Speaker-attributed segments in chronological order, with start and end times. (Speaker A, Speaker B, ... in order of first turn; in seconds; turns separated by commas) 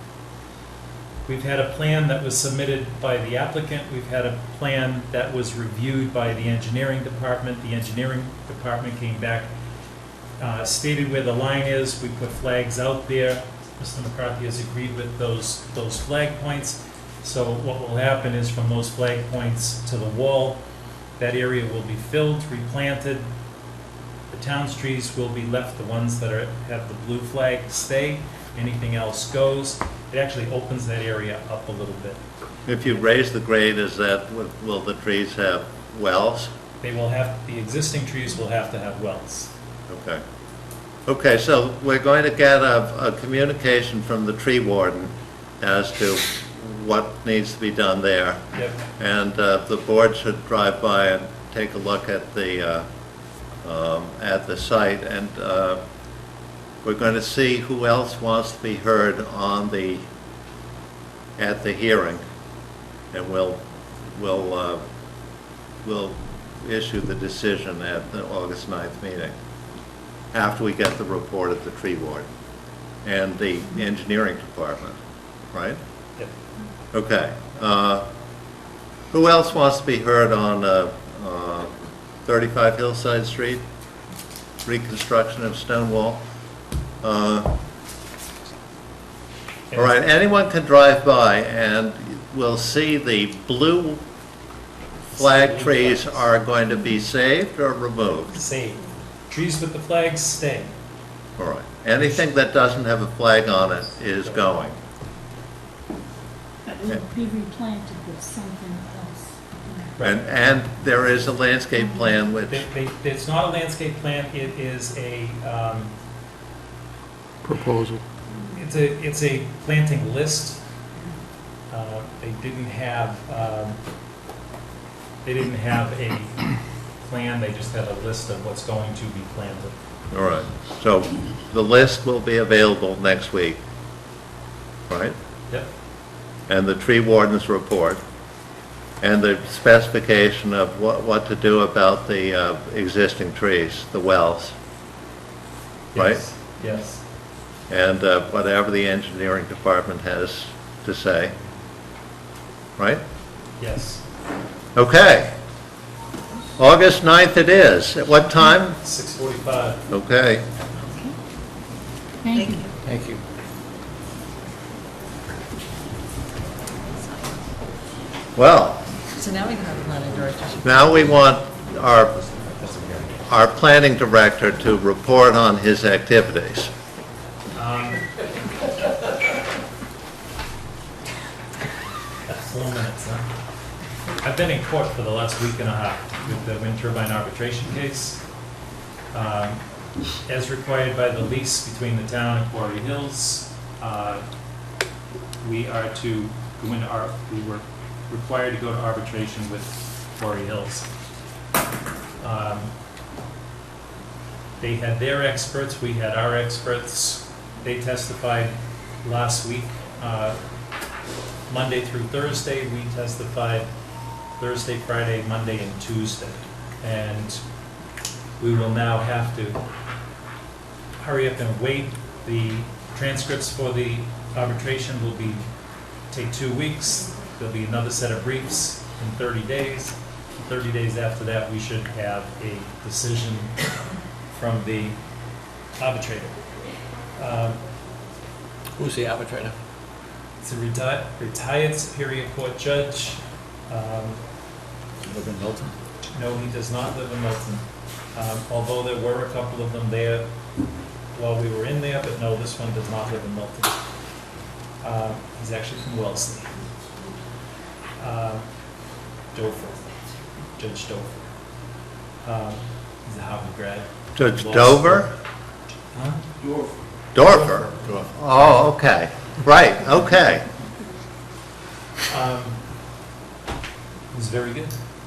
Speaker A: 1.3-9.5, Speaker A: 10.4-20.6, Speaker A: 21.2-23.3, Speaker A: 24.3-32.2, Speaker B: 32.7-36.5, Speaker A: 36.8-39.5, Speaker B: 39.9-40.2, Speaker B: 41.0-48.4, Speaker A: 48.5-48.8, Speaker B: 49.0-52.8, Speaker B: 53.6-55.8, Speaker B: 56.8-60.0, Speaker B: 61.4-62.2, Speaker B: 63.1-64.8, Speaker B: 65.8-69.3, Speaker B: 70.3-72.3, Speaker B: 73.0-75.0, Speaker B: 75.5-75.8, Speaker B: 76.9-78.0, Speaker B: 79.1-81.7, Speaker B: 82.2-83.6, Speaker B: 84.6-86.2, Speaker B: 87.0-87.5, Speaker A: 89.7-90.0, Speaker B: 89.8-94.0, Speaker A: 95.1-96.2, Speaker B: 95.1-98.3, Speaker A: 98.3-100.7, Speaker B: 101.4-104.8, Speaker C: 106.7-109.9, Speaker B: 110.0-112.6, Speaker A: 112.5-115.9, Speaker D: 117.4-118.0, Speaker A: 118.5-120.6, Speaker A: 121.7-123.8, Speaker A: 125.2-126.5, Speaker A: 127.0-129.8, Speaker B: 130.1-133.6, Speaker B: 134.9-135.2, Speaker B: 136.5-138.0, Speaker B: 139.0-144.6, Speaker A: 145.9-147.0, Speaker B: 145.9-146.2, Speaker B: 147.7-151.3, Speaker A: 153.6-154.0, Speaker B: 154.8-155.3, Speaker B: 156.6-158.8, Speaker A: 158.8-159.8, Speaker B: 159.9-160.4, Speaker C: 162.2-162.6, Speaker E: 162.3-162.7, Speaker D: 162.8-163.2, Speaker E: 166.8-167.3, Speaker B: 168.3-168.9, Speaker E: 169.1-170.8, Speaker B: 170.6-172.5, Speaker B: 173.1-176.7, Speaker A: 177.5-178.0, Speaker A: 182.3-183.3, Speaker A: 184.2-188.2, Speaker A: 189.1-189.6, Speaker A: 190.2-194.2, Speaker A: 195.4-200.9, Speaker A: 202.2-202.7, Speaker A: 204.6-210.4, Speaker A: 211.5-213.7, Speaker A: 214.4-217.4, Speaker A: 218.4-219.6, Speaker A: 221.0-225.5, Speaker A: 226.1-233.6, Speaker A: 234.3-235.0, Speaker A: 235.8-236.4, Speaker A: 237.2-237.6, Speaker D: 238.8-239.5, Speaker A: 240.4-244.2, Speaker D: 245.1-245.7, Speaker A: 246.1-250.3, Speaker A: 251.1-253.8, Speaker A: 254.8-256.5, Speaker A: 258.0-258.5, Speaker A: 259.3-259.9, Speaker A: 260.6-261.3, Speaker A: 262.2-265.1, Speaker B: 264.1-265.1, Speaker A: 265.9-266.2, Speaker D: 266.4-266.7, Speaker B: 267.1-270.4, Speaker A: 267.2-268.0, Speaker A: 272.1-272.6, Speaker A: 274.1-274.8